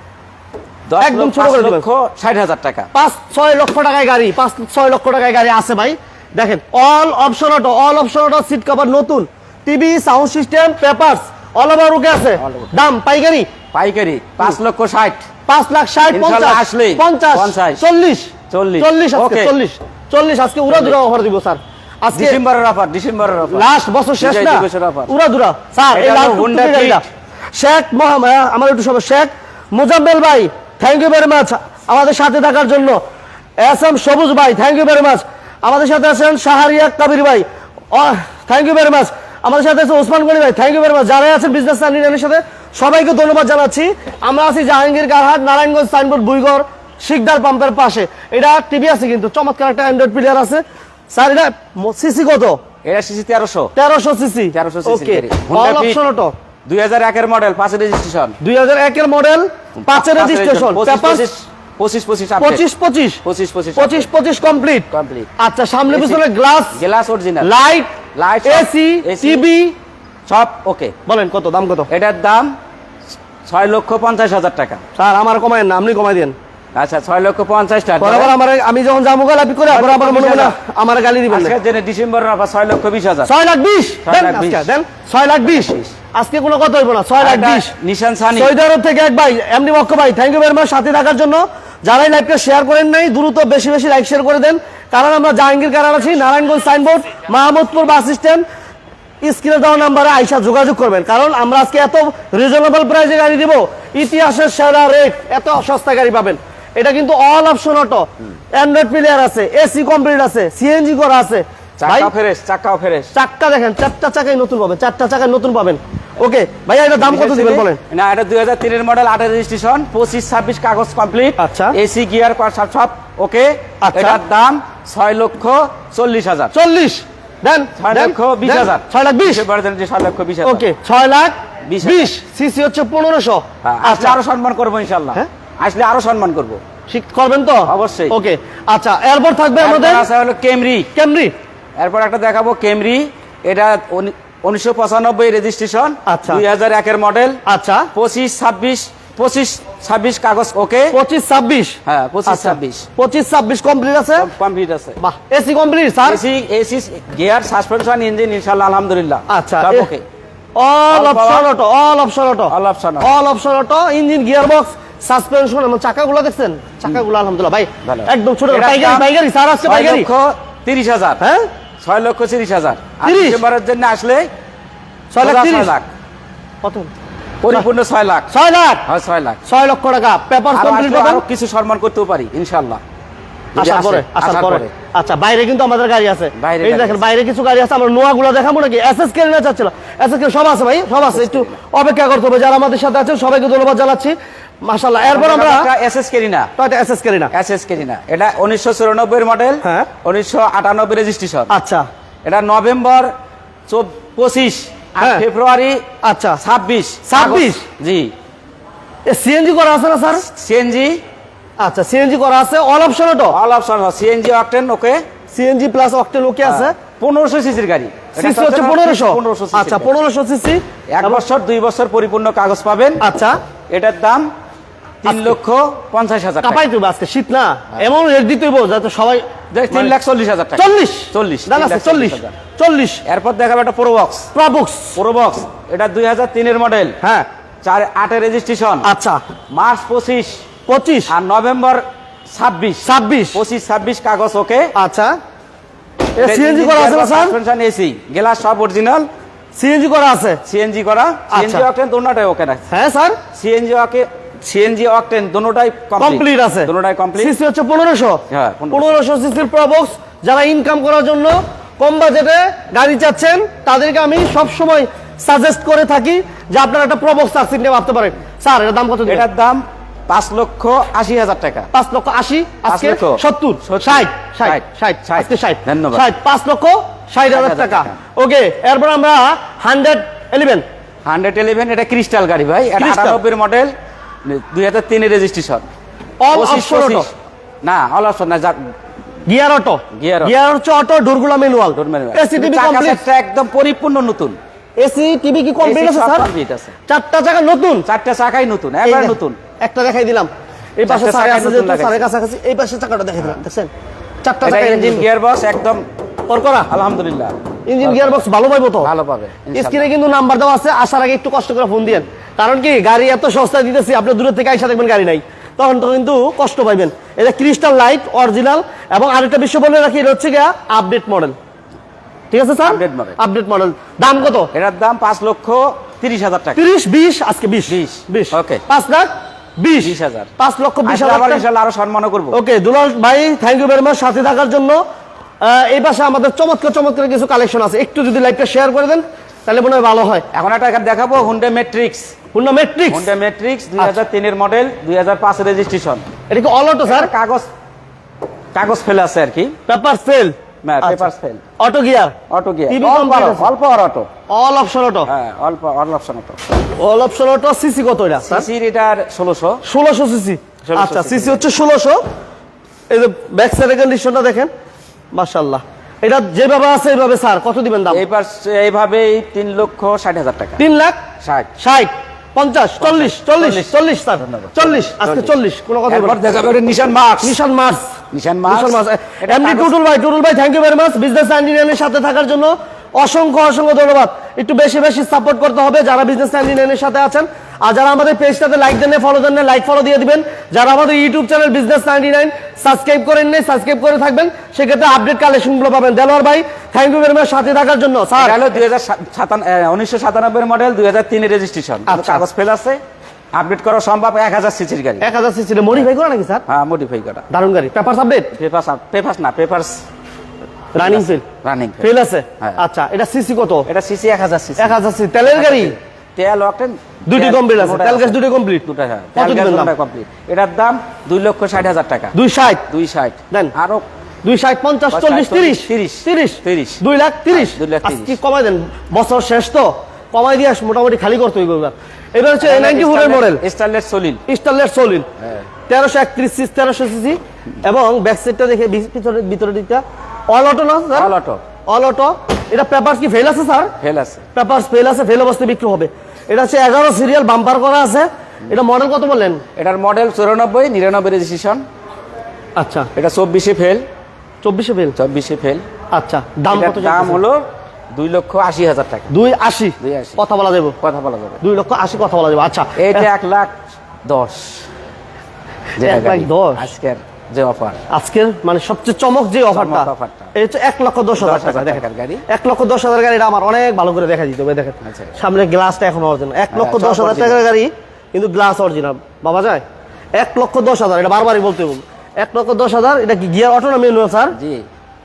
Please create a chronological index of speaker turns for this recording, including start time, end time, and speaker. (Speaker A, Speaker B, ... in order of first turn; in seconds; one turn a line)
Speaker A: 0.9-2.9
Speaker B: 1.0-1.9
Speaker B: 2.9-13.5
Speaker A: 12.4-12.8
Speaker A: 13.7-15.3
Speaker B: 15.5-22.4
Speaker A: 16.1-17.8
Speaker A: 18.5-19.5
Speaker A: 20.7-21.0
Speaker A: 22.1-23.7
Speaker B: 23.4-27.0
Speaker A: 24.2-25.1
Speaker A: 25.9-27.0
Speaker B: 27.5-33.0
Speaker B: 33.6-52.6
Speaker A: 52.8-53.7
Speaker B: 53.8-56.3
Speaker A: 54.5-56.0
Speaker A: 56.6-58.4
Speaker B: 58.4-61.2
Speaker A: 59.8-62.6
Speaker B: 62.4-63.2
Speaker A: 63.2-64.1
Speaker B: 63.8-64.8
Speaker A: 64.9-65.3
Speaker B: 65.4-66.8
Speaker A: 65.9-66.2
Speaker A: 66.7-67.5
Speaker B: 67.4-69.8
Speaker A: 68.1-69.4
Speaker A: 70.3-70.9
Speaker B: 71.0-71.9
Speaker A: 71.9-72.5
Speaker A: 73.5-74.8
Speaker B: 75.0-76.3
Speaker A: 76.7-78.3
Speaker B: 78.0-81.5
Speaker A: 79.7-80.5
Speaker A: 81.3-83.3
Speaker B: 83.2-87.7
Speaker A: 84.0-84.7
Speaker A: 85.5-85.9
Speaker A: 87.2-88.5
Speaker B: 88.3-98.4
Speaker B: 99.2-112.1
Speaker A: 111.8-113.1
Speaker B: 113.1-117.8
Speaker A: 117.0-126.5
Speaker B: 121.4-121.8
Speaker B: 123.8-124.2
Speaker B: 126.5-129.4
Speaker A: 127.8-130.7
Speaker B: 130.4-134.2
Speaker A: 131.6-132.1
Speaker A: 133.6-136.6
Speaker B: 136.9-140.1
Speaker A: 137.7-138.1
Speaker A: 139.6-140.9
Speaker B: 140.9-141.3
Speaker A: 141.8-147.4
Speaker B: 146.1-146.4
Speaker B: 147.5-147.9
Speaker A: 147.9-151.0
Speaker B: 150.9-154.3
Speaker A: 151.8-152.9
Speaker A: 154.2-155.0
Speaker B: 155.0-156.2
Speaker A: 156.1-160.0
Speaker B: 159.3-159.9
Speaker B: 160.6-170.1
Speaker A: 160.9-161.5
Speaker A: 162.5-163.1
Speaker A: 167.8-169.1
Speaker A: 169.7-171.2
Speaker B: 171.2-171.5
Speaker A: 171.8-174.3
Speaker B: 173.0-173.4
Speaker B: 175.1-175.7
Speaker A: 175.2-175.9
Speaker B: 176.6-176.9
Speaker A: 177.4-178.3
Speaker B: 178.3-178.8
Speaker A: 178.8-179.4
Speaker B: 179.4-181.2
Speaker A: 180.5-182.8
Speaker A: 183.6-184.7
Speaker B: 183.6-195.7
Speaker A: 186.4-187.0
Speaker A: 191.1-191.5
Speaker A: 195.0-196.5
Speaker B: 196.6-197.3
Speaker A: 197.3-201.5
Speaker B: 199.6-199.9
Speaker B: 201.5-201.8
Speaker A: 202.2-203.1
Speaker A: 203.7-205.8
Speaker B: 205.0-205.2
Speaker B: 206.0-206.4
Speaker A: 206.4-208.1
Speaker B: 207.1-207.6
Speaker B: 209.1-210.2
Speaker A: 210.3-211.0
Speaker B: 211.6-213.3
Speaker A: 213.3-215.0
Speaker B: 215.3-216.7
Speaker A: 216.4-219.9
Speaker B: 218.2-221.2
Speaker A: 220.9-223.0
Speaker B: 223.0-223.4
Speaker A: 223.7-224.3
Speaker A: 225.0-226.6
Speaker B: 225.1-225.3
Speaker B: 226.4-229.9
Speaker A: 229.5-232.3
Speaker B: 230.6-233.0
Speaker A: 233.1-234.3
Speaker B: 234.3-235.0
Speaker A: 234.9-237.0
Speaker B: 237.0-237.3
Speaker A: 237.6-238.9
Speaker B: 238.8-239.2
Speaker A: 239.5-240.4
Speaker B: 240.7-241.1
Speaker A: 241.1-244.7
Speaker B: 242.8-243.4
Speaker B: 244.7-245.2
Speaker B: 246.2-247.3
Speaker A: 246.2-249.1
Speaker B: 249.6-250.4
Speaker A: 250.4-252.7
Speaker B: 251.3-251.7
Speaker B: 252.7-253.2
Speaker A: 253.3-257.3
Speaker B: 256.0-269.2
Speaker A: 258.3-259.0
Speaker A: 269.1-271.7
Speaker B: 271.7-280.6
Speaker A: 272.7-276.1
Speaker A: 277.3-278.0
Speaker A: 281.1-283.7
Speaker B: 282.8-283.2
Speaker A: 284.2-285.7
Speaker B: 286.2-287.1
Speaker A: 286.3-287.1
Speaker A: 287.6-288.7
Speaker B: 289.3-293.0
Speaker A: 289.9-290.3
Speaker A: 291.7-294.4
Speaker B: 294.8-296.3
Speaker A: 295.6-296.8
Speaker B: 296.9-297.9
Speaker A: 297.9-299.4
Speaker B: 298.8-303.7
Speaker A: 300.9-302.1
Speaker B: 304.2-305.1
Speaker A: 304.4-305.8
Speaker B: 306.3-306.7
Speaker A: 306.7-308.2
Speaker B: 307.7-308.9
Speaker A: 308.8-309.9
Speaker B: 309.5-321.4
Speaker B: 322.3-324.5
Speaker A: 322.6-323.2
Speaker A: 324.4-326.6
Speaker B: 326.6-331.4
Speaker A: 327.7-328.6
Speaker A: 329.8-330.3
Speaker A: 330.8-332.4
Speaker B: 332.3-334.8
Speaker B: 335.4-340.2
Speaker A: 340.3-342.1
Speaker B: 342.3-343.1
Speaker A: 342.9-346.1
Speaker B: 346.3-347.1
Speaker A: 346.9-347.5
Speaker A: 348.5-349.6
Speaker B: 349.7-352.1
Speaker A: 350.6-351.4
Speaker A: 352.3-354.1
Speaker B: 352.7-353.5
Speaker B: 354.3-355.1
Speaker A: 355.1-356.4
Speaker B: 356.8-358.5
Speaker A: 358.2-359.6
Speaker B: 359.6-362.0
Speaker A: 360.6-361.4
Speaker B: 362.9-364.5
Speaker B: 365.1-368.0
Speaker A: 367.9-370.6
Speaker B: 370.6-371.0
Speaker A: 371.2-371.5
Speaker B: 371.6-376.2
Speaker A: 372.8-375.3
Speaker A: 375.9-377.4
Speaker B: 377.2-398.5
Speaker A: 378.1-379.8
Speaker A: 398.1-402.8
Speaker B: 401.9-402.2
Speaker A: 403.3-405.1
Speaker B: 405.0-406.4
Speaker A: 406.5-407.3
Speaker B: 407.3-408.3
Speaker A: 408.4-409.8
Speaker B: 410.7-411.2
Speaker A: 410.8-412.6
Speaker B: 411.8-413.7
Speaker A: 413.7-414.8
Speaker B: 414.6-415.7
Speaker A: 415.3-422.1
Speaker B: 417.1-419.7
Speaker B: 422.1-422.6
Speaker A: 422.7-423.8
Speaker B: 424.2-433.4
Speaker A: 424.9-428.2
Speaker A: 432.4-434.2
Speaker B: 434.3-435.1
Speaker A: 435.2-435.4
Speaker B: 435.7-441.1
Speaker A: 440.9-441.4
Speaker B: 441.7-443.7
Speaker A: 443.8-444.2
Speaker B: 444.3-449.4
Speaker A: 449.6-451.6
Speaker B: 452.6-452.9
Speaker A: 452.9-453.8
Speaker B: 454.4-454.9
Speaker A: 454.9-455.6
Speaker B: 455.9-457.2
Speaker A: 456.5-459.1
Speaker B: 459.1-460.8
Speaker A: 459.8-460.2
Speaker A: 460.8-461.4
Speaker B: 461.4-463.1
Speaker A: 462.8-463.5
Speaker A: 464.0-464.6
Speaker A: 465.8-467.8
Speaker B: 465.8-466.7
Speaker B: 467.9-479.6
Speaker A: 469.5-470.3
Speaker A: 471.1-472.2
Speaker A: 474.8-475.1
Speaker A: 476.5-477.4
Speaker B: 480.1-484.4
Speaker A: 484.3-484.6